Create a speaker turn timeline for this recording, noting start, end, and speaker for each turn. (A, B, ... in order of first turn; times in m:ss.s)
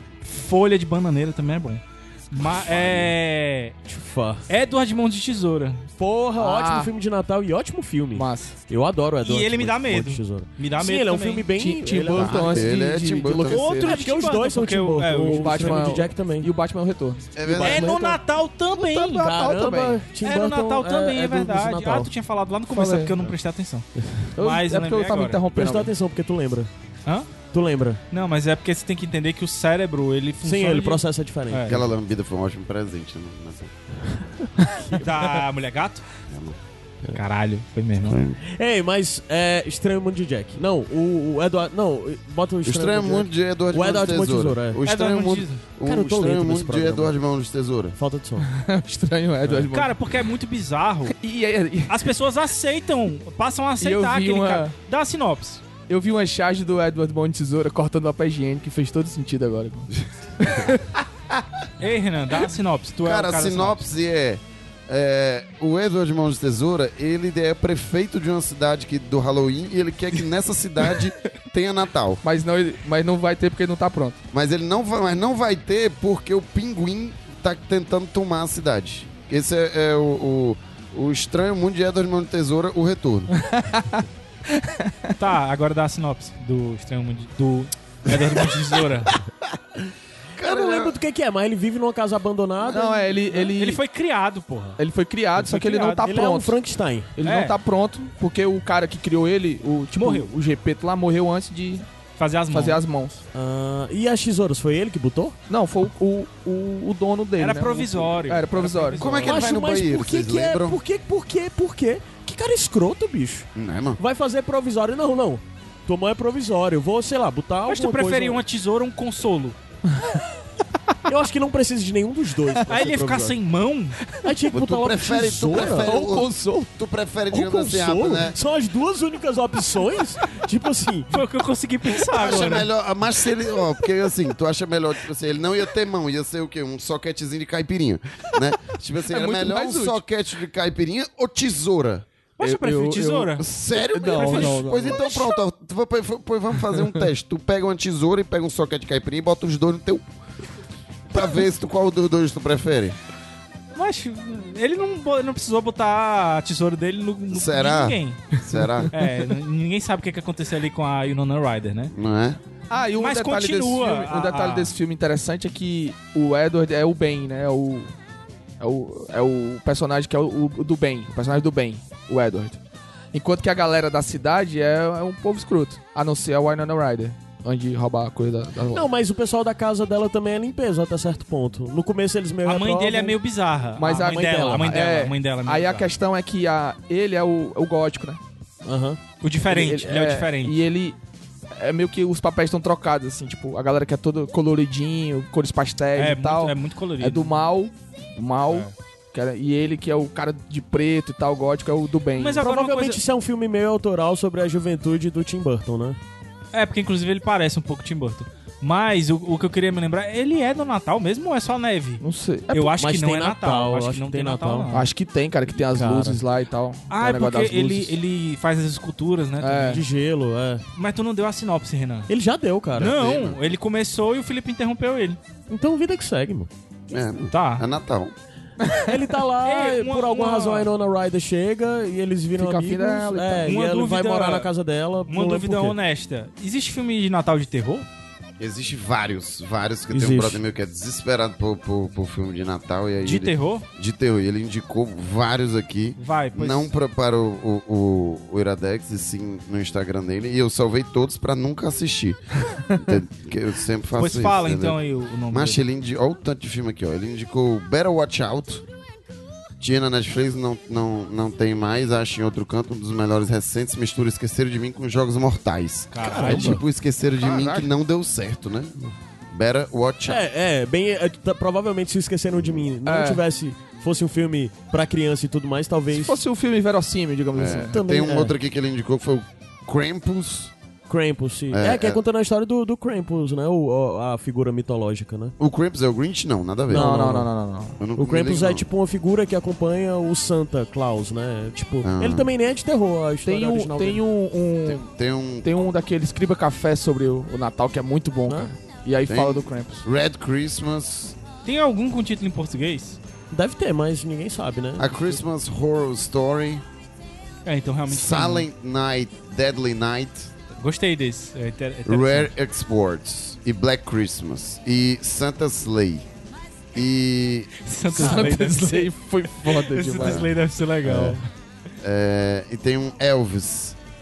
0:00.2-0:03.8 A
0:02.5-0:03.1 B
0:03.9-0:04.5 C
0:04.5-0:05.9 A
0:06.0-0:12.7 C
0:06.4-0:06.9 D
0:08.2-0:08.6 D
0:09.2-0:11.5 A
0:11.6-0:13.9 D
0:12.1-0:13.7 B
0:13.5-0:16.0 A
0:13.8-0:16.5 C
0:15.3-0:18.1 D
0:17.4-0:17.9 B
0:17.5-0:18.2 C
0:17.6-0:19.3 A
0:18.7-0:20.0 D
0:19.2-0:22.1 C
0:20.2-0:25.4 A
0:22.7-0:23.1 D
0:24.0-0:24.3 C
0:24.4-0:25.9 D
0:25.5-0:26.7 C
0:27.1-0:27.3 A
0:27.5-0:28.0 C
0:28.1-0:31.8 A
0:30.4-0:31.8 C
0:31.7-0:33.7 B
0:34.1-0:35.2 C
0:35.0-0:36.1 A
0:36.3-0:36.6 B
0:37.1-0:38.2 A
0:38.0-0:38.4 B
0:38.4-0:44.8 C
0:42.6-0:48.0 B
0:44.9-0:45.7 A
0:45.8-0:47.2 C
0:48.0-0:48.5 C
0:48.4-0:50.0 D
0:49.7-0:51.2 A
0:51.1-0:52.0 D
0:51.9-0:55.6 A
0:53.8-0:54.8 D
0:55.9-1:00.9 D
1:01.8-1:03.8 A
1:03.0-1:12.2 B
1:12.2-1:14.2 D
1:14.3-1:23.3 B
1:23.3-1:25.1 D
1:25.2-1:29.2 A
1:30.4-1:31.0 B
1:30.4-1:33.5 C
1:32.6-1:33.8 D
1:33.5-1:34.8 A
1:34.8-1:36.6 D
1:35.4-1:36.2 A
1:36.0-1:37.1 C
1:37.2-1:41.9 D
1:37.2-1:37.6 A
1:40.0-1:40.3 A
1:42.2-1:42.8 A
1:42.5-1:43.2 D
1:43.3-1:45.4 C
1:45.5-1:49.0 D
1:47.4-1:49.5 A
1:49.0-1:50.8 B
1:49.3-1:58.4 C
1:53.6-1:54.0 B
1:57.7-1:59.6 A
2:01.1-2:03.4 C
2:02.7-2:04.0 A
2:04.2-2:06.3 C
2:04.5-2:08.4 B
2:05.5-2:06.7 D
2:07.3-2:11.2 C
2:11.1-2:12.7 A
2:12.1-2:22.1 B
2:19.0-2:20.0 D
2:22.4-2:23.5 A
2:22.4-2:25.3 D
2:23.4-2:30.0 B
2:24.2-2:24.6 A
2:31.1-2:33.0 B
2:33.8-2:41.9 A
2:37.3-2:38.9 B
2:41.9-2:42.4 B
2:42.7-2:47.9 D
2:43.0-2:44.8 A
2:48.6-2:52.6 D
2:53.1-2:58.9 D
2:58.7-3:03.2 C
3:02.4-3:05.9 A
3:03.8-3:08.2 D
3:04.0-3:04.7 C
3:08.6-3:09.0 C
3:09.2-3:10.6 A
3:09.5-3:11.0 D
3:11.5-3:22.4 D
3:16.0-3:17.3 A
3:22.2-3:23.0 A
3:22.4-3:26.0 C
3:26.5-3:34.9 A
3:32.0-3:32.7 D
3:32.8-3:34.7 C
3:34.7-3:38.0 D
3:35.6-3:36.2 C
3:36.9-3:39.8 A
3:39.4-3:39.8 D
3:39.7-3:40.6 C
3:40.8-3:42.1 A
3:42.1-3:43.1 C
3:42.8-3:45.2 A
3:43.0-3:43.4 B
3:45.5-3:46.5 C
3:46.9-3:48.1 B
3:47.3-3:47.7 A
3:48.6-3:48.9 D
3:48.9-3:55.8 C
3:49.4-3:50.7 A
3:52.4-3:53.5 D
3:53.4-3:54.5 A
3:55.1-3:57.9 A
3:58.4-4:14.8 B
3:59.9-4:00.4 C
4:03.0-4:03.7 A
4:06.0-4:06.7 A
4:14.0-4:15.6 A
4:15.3-4:18.6 B
4:19.6-4:30.3 B
4:25.9-4:26.6 A
4:26.1-4:26.6 C
4:27.2-4:27.7 D
4:30.1-4:36.2 C
4:32.4-4:32.7 B
4:32.8-4:33.2 D
4:35.9-4:37.8 D
4:37.4-4:40.5 B
4:37.7-4:38.3 C
4:40.9-4:45.4 C
4:41.5-4:42.0 B
4:45.4-4:47.0 B
4:46.7-4:47.3 C
4:46.7-4:47.8 D
4:47.8-4:48.7 B
4:48.0-4:54.0 C
4:51.8-4:52.3 B
4:53.2-4:54.9 D
4:54.6-4:55.5 B
4:55.4-4:59.9 D
4:59.1-5:01.2 B
5:01.4-5:03.0 A
5:03.3-5:05.2 C
5:04.8-5:06.6 B
5:07.4-5:08.5 A
5:07.9-5:10.3 B
5:10.6-5:12.3 A
5:11.9-5:16.1 B
5:16.7-5:17.6 B
5:17.6-5:21.2 A
5:18.0-5:20.3 D
5:20.0-5:21.2 B
5:21.8-5:23.8 B